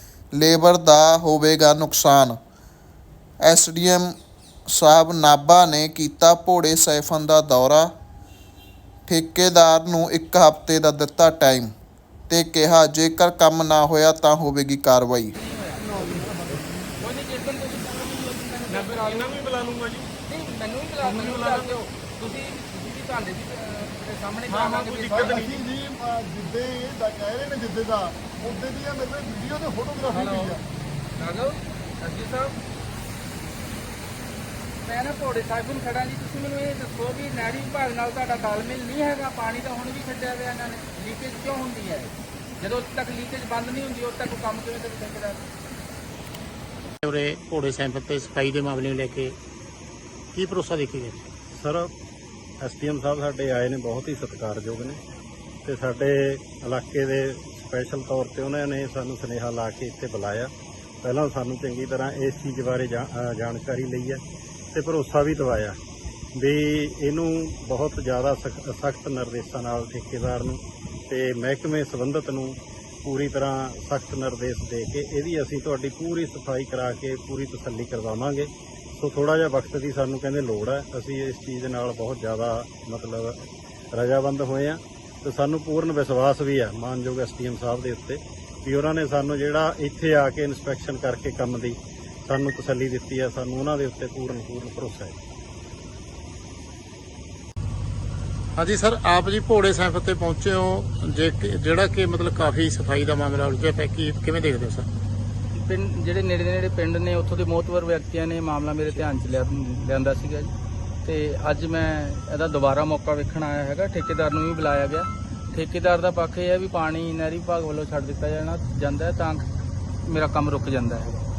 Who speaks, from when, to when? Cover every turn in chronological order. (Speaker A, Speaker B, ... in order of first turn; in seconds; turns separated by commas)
Speaker A: 0.3-2.4, Speaker A: 3.4-4.1, Speaker A: 4.7-7.9, Speaker A: 9.1-11.7, Speaker A: 12.3-15.3, Speaker B: 15.3-16.2, Speaker C: 15.9-16.8, Speaker B: 17.0-19.4, Speaker D: 18.7-20.1, Speaker B: 20.2-25.5, Speaker D: 21.0-21.8, Speaker D: 24.5-25.7, Speaker C: 25.2-30.6, Speaker B: 30.1-30.6, Speaker B: 31.2-32.6, Speaker B: 34.8-45.5, Speaker E: 47.0-49.4, Speaker E: 50.3-51.2, Speaker F: 51.5-51.9, Speaker F: 52.6-55.0, Speaker F: 55.6-60.5, Speaker F: 61.0-64.2, Speaker F: 64.7-65.8, Speaker F: 66.3-95.2, Speaker E: 98.6-104.9, Speaker B: 105.5-110.5, Speaker B: 111.0-119.5, Speaker B: 120.0-121.2